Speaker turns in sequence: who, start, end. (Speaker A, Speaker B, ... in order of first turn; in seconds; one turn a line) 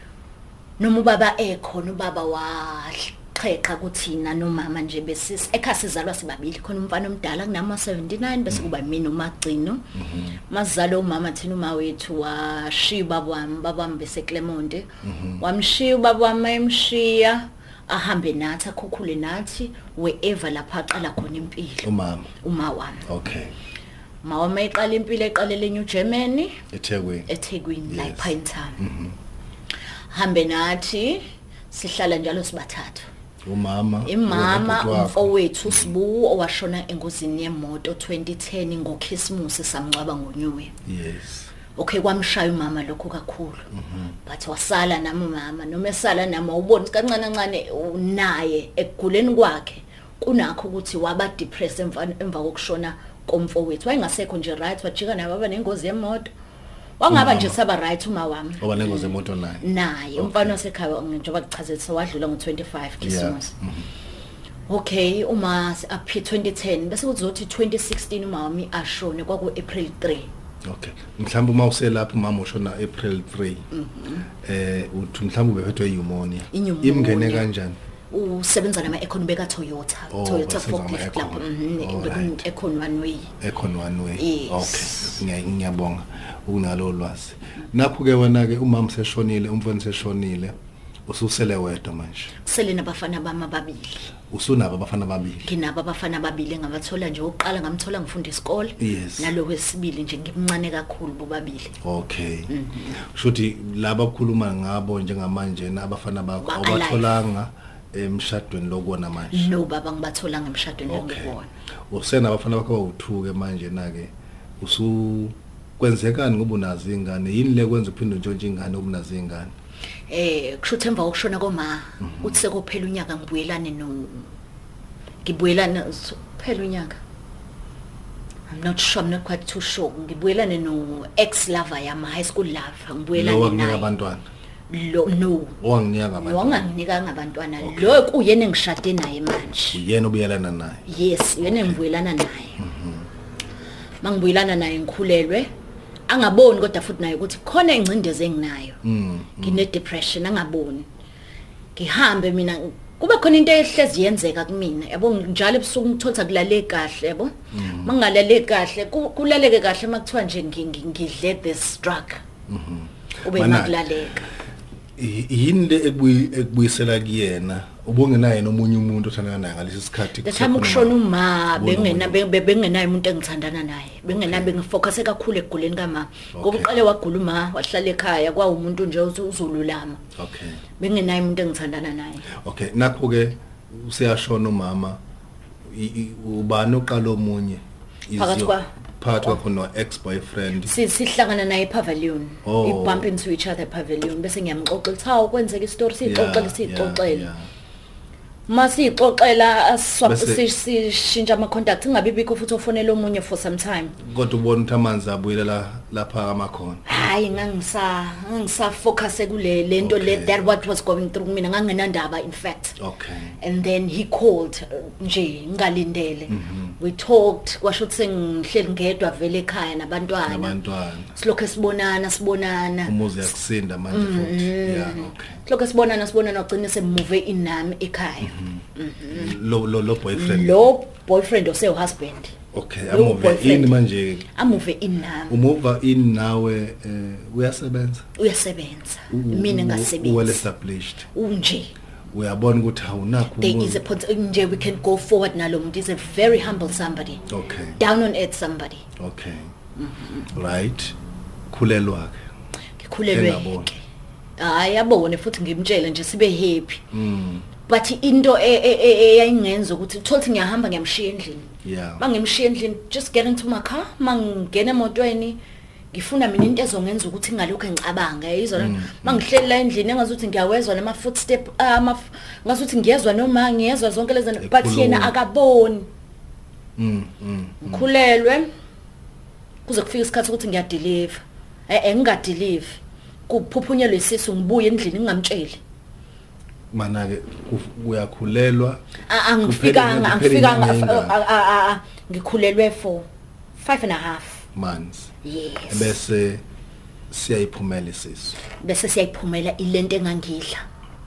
Speaker A: 0.8-9.9
Speaker B: 9.9-10.4
Speaker A: 10.5-21.9
Speaker B: 15.0-15.4
Speaker B: 21.8-22.3
Speaker A: 22.4-23.0
Speaker B: 23.1-23.5
Speaker A: 24.2-26.6
Speaker B: 26.7-27.3
Speaker A: 27.3-28.8
Speaker B: 27.9-29.2
Speaker A: 30.1-33.1
Speaker B: 33.4-35.9
Speaker A: 34.0-40.7
Speaker B: 40.9-41.5
Speaker A: 41.7-43.7
Speaker B: 43.7-44.1
Speaker A: 44.2-56.3
Speaker A: 57.0-59.1
Speaker B: 57.1-57.6
Speaker B: 58.6-59.6
Speaker A: 59.6-63.5
Speaker B: 60.1-60.6
Speaker B: 63.0-63.9
Speaker A: 64.7-70.3
Speaker B: 70.6-73.7
Speaker A: 73.7-74.3
Speaker B: 74.4-77.8
Speaker A: 76.5-77.5
Speaker A: 78.1-83.3
Speaker B: 80.1-82.4
Speaker B: 83.4-90.5
Speaker A: 84.2-85.2
Speaker B: 91.1-92.3
Speaker A: 92.4-94.1
Speaker B: 94.3-95.5
Speaker A: 95.4-101.7
Speaker B: 98.8-99.3
Speaker B: 101.8-109.5
Speaker A: 102.5-103.0
Speaker A: 106.4-107.1
Speaker A: 109.3-111.5
Speaker B: 110.9-111.3
Speaker B: 111.9-119.5
Speaker A: 120.1-124.3
Speaker B: 122.0-122.4
Speaker A: 125.2-127.0
Speaker A: 128.5-133.9
Speaker B: 133.1-134.2
Speaker A: 134.7-135.6
Speaker B: 135.6-136.7
Speaker A: 136.2-139.8
Speaker B: 137.6-138.0
Speaker B: 139.7-140.9
Speaker A: 140.9-142.6
Speaker B: 141.4-141.8
Speaker B: 142.6-143.1
Speaker A: 144.0-145.5
Speaker A: 146.1-148.8
Speaker B: 148.8-149.7
Speaker A: 149.4-150.9
Speaker A: 151.8-162.2
Speaker B: 157.5-157.9
Speaker B: 162.5-163.8
Speaker A: 163.2-164.3
Speaker B: 165.0-171.0
Speaker A: 170.2-180.0
Speaker B: 171.5-172.2
Speaker B: 174.1-174.6
Speaker B: 176.3-176.7
Speaker B: 180.2-180.6
Speaker A: 180.8-182.2
Speaker B: 182.3-185.0
Speaker B: 185.7-190.8
Speaker A: 188.2-188.7
Speaker A: 190.6-197.3
Speaker B: 192.4-193.1
Speaker B: 196.0-197.5
Speaker A: 198.5-204.0
Speaker B: 200.0-200.4
Speaker B: 204.0-206.8
Speaker A: 206.8-212.8
Speaker B: 209.8-210.6
Speaker B: 212.8-213.3
Speaker A: 213.4-220.6
Speaker B: 216.3-216.8
Speaker B: 220.2-221.1
Speaker A: 221.1-223.0
Speaker B: 222.8-225.4
Speaker A: 223.9-229.3
Speaker B: 228.2-230.7
Speaker A: 230.1-232.3
Speaker B: 232.5-234.3
Speaker A: 232.9-233.8
Speaker A: 234.3-235.4
Speaker B: 235.3-238.1
Speaker A: 238.2-240.4
Speaker B: 239.1-241.1
Speaker A: 241.1-241.7
Speaker B: 242.1-243.8
Speaker A: 243.3-247.2
Speaker B: 247.3-247.8
Speaker A: 247.8-248.8
Speaker B: 249.0-249.5
Speaker A: 249.8-250.3
Speaker B: 250.3-250.9
Speaker B: 251.5-252.2
Speaker A: 252.8-253.8
Speaker B: 253.1-253.7
Speaker A: 254.4-256.8
Speaker B: 256.9-257.5
Speaker A: 257.6-265.4
Speaker B: 261.6-262.0
Speaker A: 265.9-275.9
Speaker B: 268.6-269.2
Speaker B: 274.4-275.1
Speaker B: 276.8-277.9
Speaker A: 277.6-278.5
Speaker A: 279.6-285.6
Speaker B: 286.7-288.8
Speaker A: 289.1-294.4
Speaker B: 289.4-291.2
Speaker B: 294.5-295.1
Speaker A: 295.2-296.0
Speaker B: 295.7-296.4
Speaker B: 297.1-298.4
Speaker A: 298.6-300.6